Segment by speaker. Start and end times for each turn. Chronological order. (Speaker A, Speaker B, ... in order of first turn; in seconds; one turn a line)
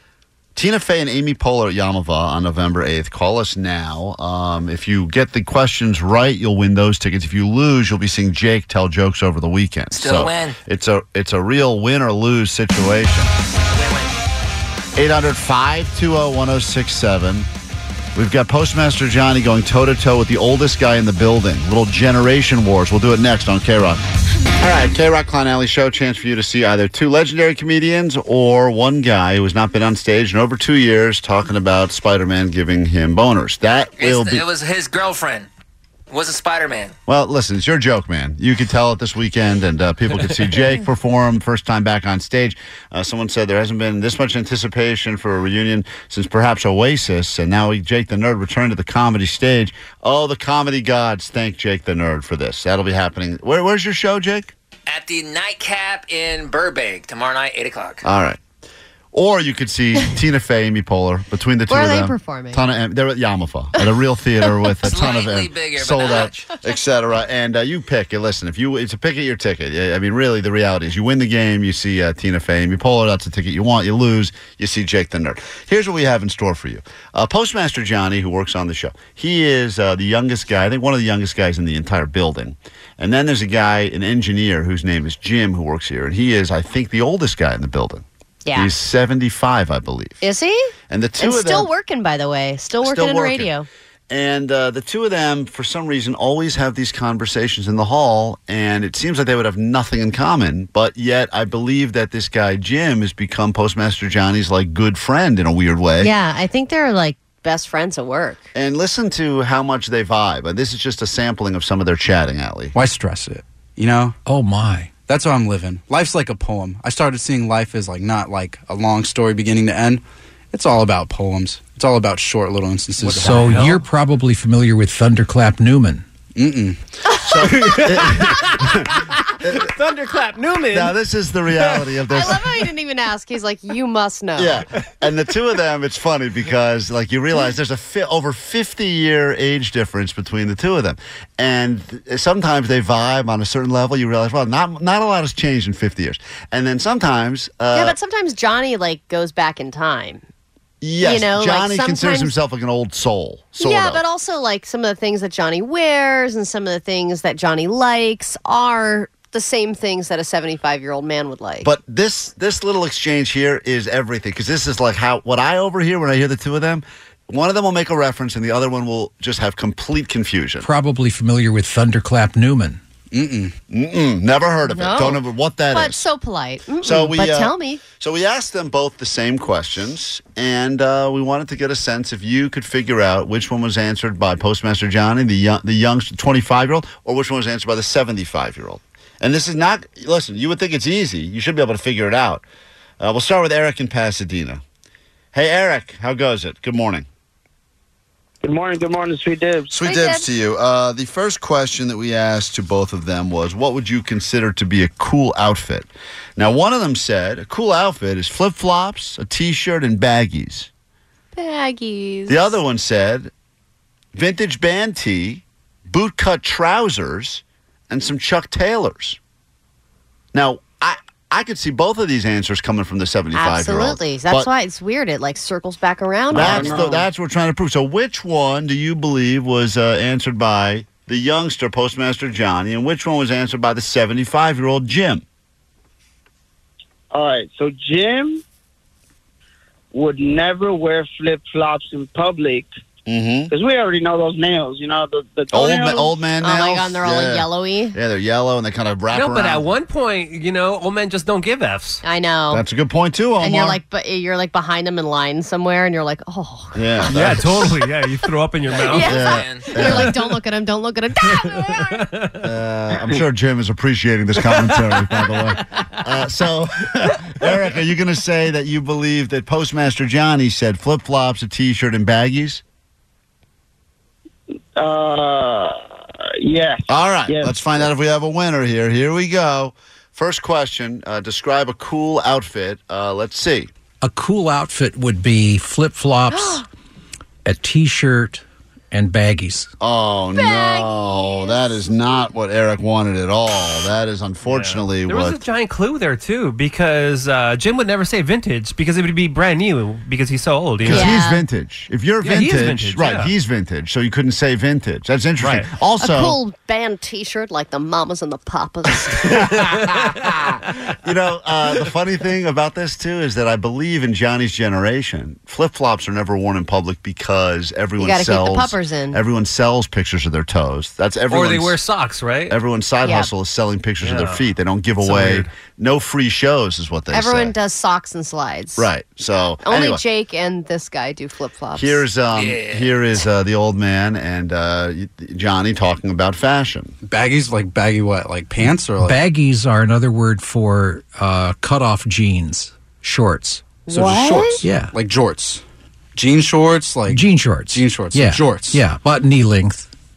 Speaker A: 0.6-13.3
Speaker B: 9.9-10.6
Speaker B: 13.7-14.1
Speaker A: 14.9-17.5
Speaker A: 18.1-24.0
Speaker A: 24.6-34.5
Speaker B: 34.0-35.5
Speaker B: 36.1-36.9
Speaker A: 37.1-54.5
Speaker B: 54.9-58.0
Speaker A: 58.0-58.4
Speaker A: 59.1-90.2
Speaker C: 61.7-62.6
Speaker B: 64.8-66.6
Speaker C: 88.4-88.7
Speaker C: 90.2-93.7
Speaker A: 90.9-91.7
Speaker A: 92.8-93.5
Speaker A: 94.1-106.1
Speaker C: 106.0-108.5
Speaker A: 108.5-112.7
Speaker D: 112.7-114.2
Speaker E: 114.3-115.0
Speaker D: 115.0-123.8
Speaker F: 123.0-123.8
Speaker E: 123.0-126.0
Speaker D: 126.4-126.8
Speaker A: 127.2-129.7
Speaker F: 127.5-128.5
Speaker F: 129.5-130.9
Speaker A: 130.7-132.4
Speaker C: 132.1-134.6
Speaker A: 134.4-148.0
Speaker C: 147.7-150.2
Speaker A: 150.8-154.0
Speaker C: 151.0-152.3
Speaker C: 153.6-161.7
Speaker A: 161.6-170.7
Speaker E: 170.6-172.8
Speaker D: 173.1-173.6
Speaker A: 173.7-176.0
Speaker C: 174.6-175.2
Speaker C: 175.7-177.8
Speaker A: 176.8-192.4
Speaker A: 193.0-194.6
Speaker A: 195.3-197.1
Speaker G: 198.4-199.7
Speaker A: 199.7-210.7
Speaker C: 199.8-200.3
Speaker C: 211.3-212.6
Speaker A: 212.3-213.3
Speaker A: 214.1-219.2
Speaker A: 220.3-224.5
Speaker C: 223.3-226.9
Speaker A: 226.3-235.2
Speaker G: 237.1-238.4
Speaker G: 239.9-242.7
Speaker A: 243.1-243.5
Speaker G: 243.5-246.2
Speaker A: 245.5-249.7
Speaker C: 246.4-248.0
Speaker F: 249.1-252.0
Speaker C: 252.0-252.6
Speaker A: 252.5-253.8
Speaker C: 253.4-257.1
Speaker A: 256.8-257.8
Speaker F: 257.1-259.2
Speaker B: 258.7-259.8
Speaker C: 258.9-262.1
Speaker A: 258.9-260.2
Speaker F: 261.3-262.4
Speaker A: 262.4-272.6
Speaker F: 264.7-265.0
Speaker G: 274.8-275.8
Speaker G: 276.4-277.5
Speaker A: 276.9-283.7
Speaker E: 284.0-286.6
Speaker C: 286.3-286.7
Speaker E: 287.4-289.7
Speaker A: 289.8-295.4
Speaker C: 290.4-291.9
Speaker F: 294.4-301.2
Speaker A: 300.8-306.4
Speaker C: 300.9-301.4
Speaker F: 302.2-303.3
Speaker F: 305.4-305.7
Speaker C: 306.0-309.4
Speaker A: 309.2-321.8
Speaker C: 318.0-319.2
Speaker F: 321.3-322.6
Speaker A: 322.5-327.5
Speaker C: 323.0-323.3
Speaker F: 324.0-324.4
Speaker F: 325.0-325.5
Speaker C: 327.1-328.9
Speaker A: 328.8-330.0
Speaker C: 329.6-332.0
Speaker A: 331.8-336.9
Speaker B: 332.4-333.0
Speaker D: 337.0-339.2
Speaker E: 339.0-343.8
Speaker D: 343.9-345.6
Speaker C: 343.9-344.6
Speaker E: 344.6-344.9
Speaker D: 346.1-348.8
Speaker E: 347.1-349.9